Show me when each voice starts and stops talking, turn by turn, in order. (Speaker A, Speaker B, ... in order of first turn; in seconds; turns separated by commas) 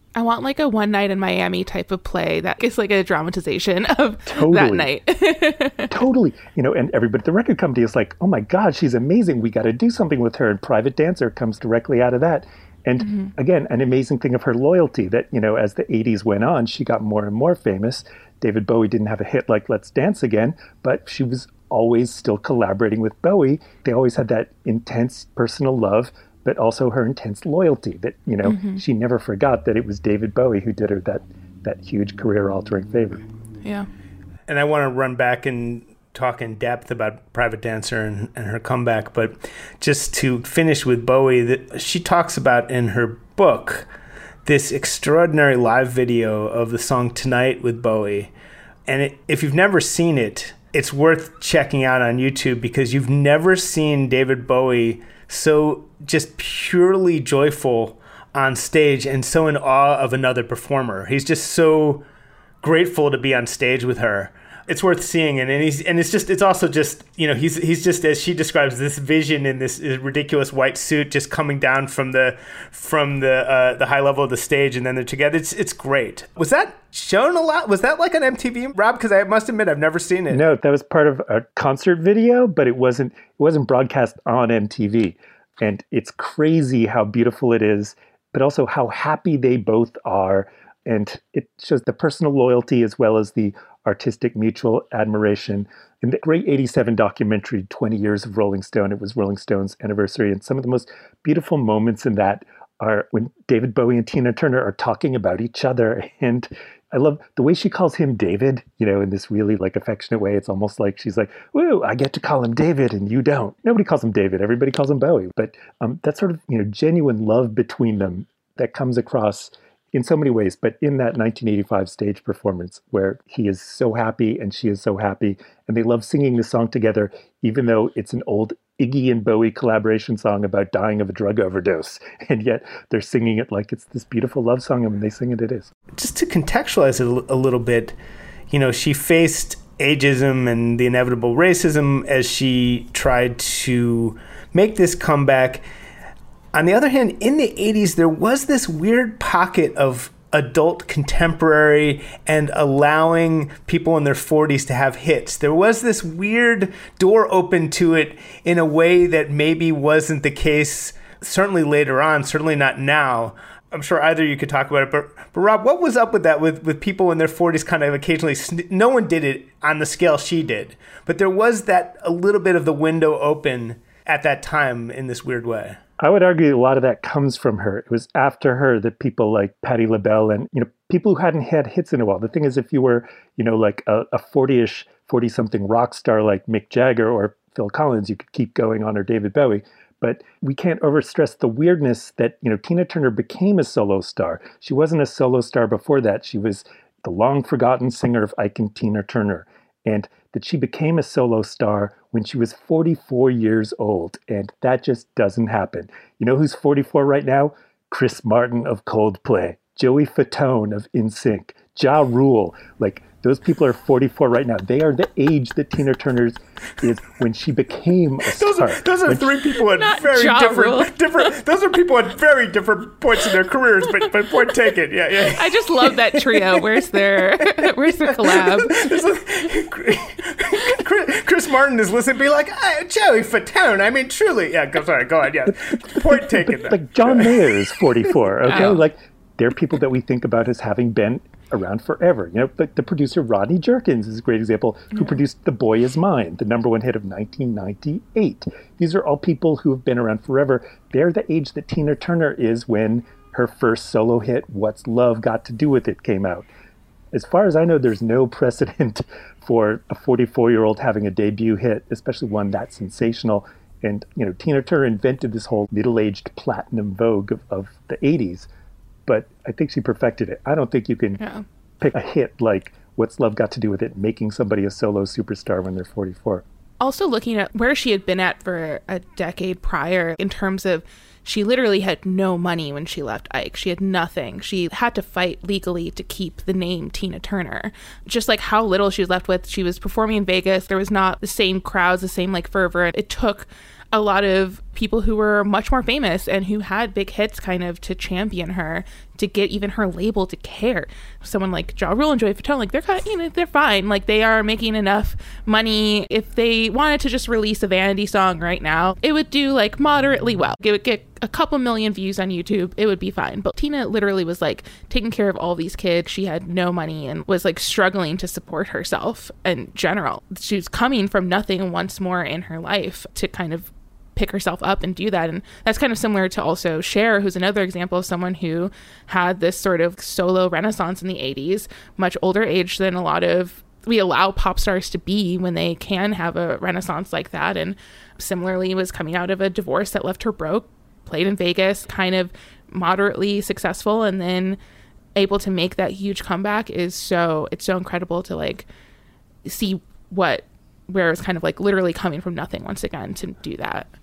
Speaker A: 0.1-5.9, Speaker B: 4.3-4.9, Speaker B: 5.9-33.2, Speaker A: 13.0-13.3, Speaker A: 28.4-28.8, Speaker A: 33.6-33.9, Speaker C: 34.5-43.9, Speaker C: 44.4-48.3, Speaker C: 48.9-62.0, Speaker C: 62.6-80.4, Speaker B: 80.3-135.7, Speaker C: 135.9-137.9, Speaker C: 138.5-145.6, Speaker C: 146.5-175.8, Speaker B: 176.0-219.2, Speaker C: 218.3-226.6, Speaker A: 219.8-221.2, Speaker A: 225.3-228.9, Speaker C: 228.2-238.7, Speaker B: 235.4-256.5, Speaker A: 238.5-238.8, Speaker B: 257.1-268.5, Speaker B: 269.1-271.2, Speaker A: 271.2-271.4, Speaker B: 271.8-276.4, Speaker A: 276.8-344.6, Speaker A: 345.1-348.6, Speaker A: 349.4-353.9